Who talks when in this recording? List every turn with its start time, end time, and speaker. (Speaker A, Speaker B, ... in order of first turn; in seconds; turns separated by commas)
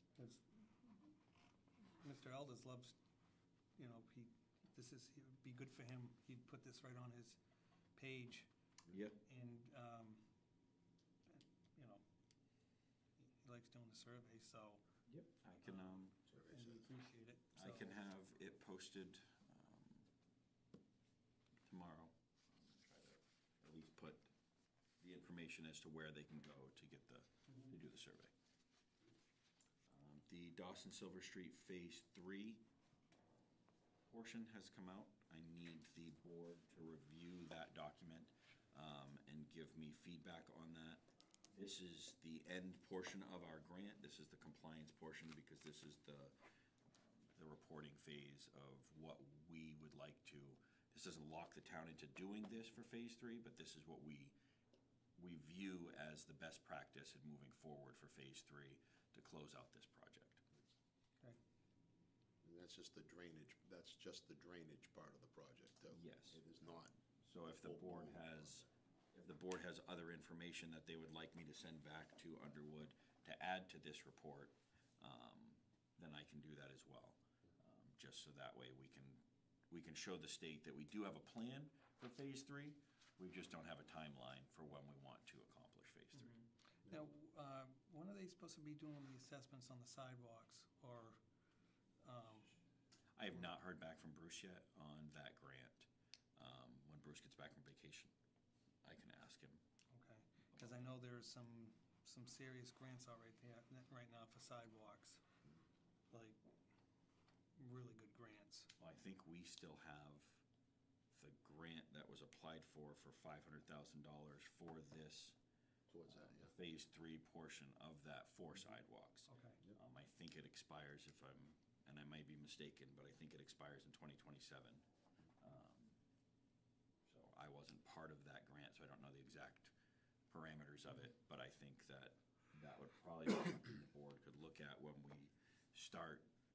Speaker A: 0.2-1.1, Speaker A: 1.8-3.0, Speaker A: 3.8-7.4, Speaker A: 8.0-8.5, Speaker B: 8.9-9.2, Speaker A: 9.2-10.2, Speaker A: 11.3-12.0, Speaker A: 13.2-14.8, Speaker B: 15.1-16.2, Speaker A: 15.6-16.0, Speaker C: 16.3-16.9, Speaker A: 16.5-17.9, Speaker B: 17.6-20.1, Speaker B: 21.7-24.3, Speaker B: 25.0-28.3, Speaker B: 29.9-32.6, Speaker B: 34.1-46.4, Speaker B: 47.2-54.4, Speaker B: 55.2-60.4, Speaker C: 62.4-68.7, Speaker B: 65.9-86.4, Speaker A: 86.2-91.2, Speaker A: 92.0-92.5, Speaker B: 93.2-98.1, Speaker B: 98.8-99.6, Speaker A: 99.9-105.2, Speaker B: 100.5-100.9, Speaker A: 106.1-106.4, Speaker A: 107.6-108.7, Speaker B: 108.8-110.4, Speaker B: 111.1-115.4, Speaker C: 115.9-116.5, Speaker B: 116.1-124.8, Speaker A: 119.3-119.6, Speaker B: 125.4-126.0, Speaker B: 127.1-129.7, Speaker B: 130.3-136.3